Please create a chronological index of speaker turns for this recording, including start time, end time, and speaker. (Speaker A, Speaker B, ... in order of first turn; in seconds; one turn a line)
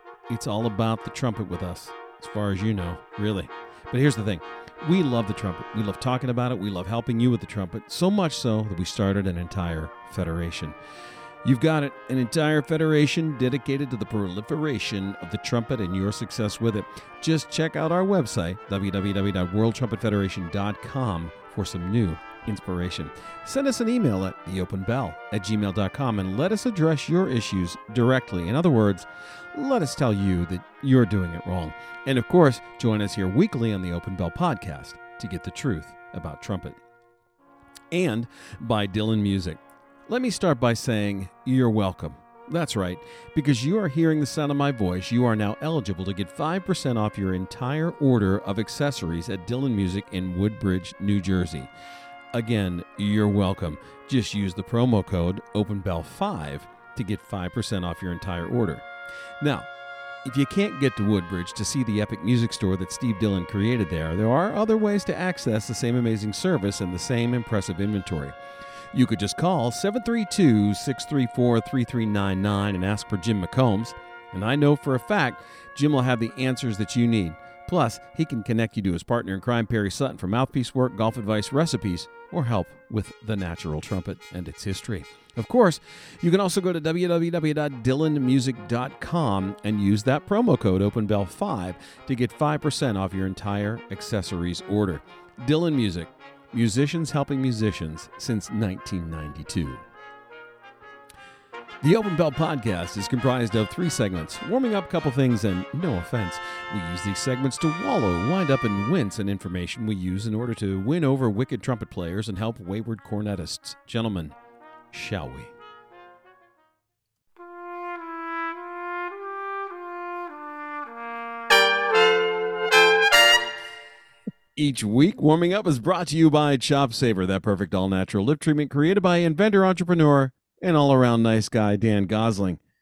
Speaker A: 0.3-10.7
Speaker A: 11.4-36.8
Speaker A: 37.9-51.7
Speaker A: 52.3-58.9
Speaker A: 59.4-59.6
Speaker A: 60.2-68.3
Speaker A: 68.9-99.8
Speaker A: 101.8-114.3
Speaker A: 114.9-115.5
Speaker A: 124.5-132.6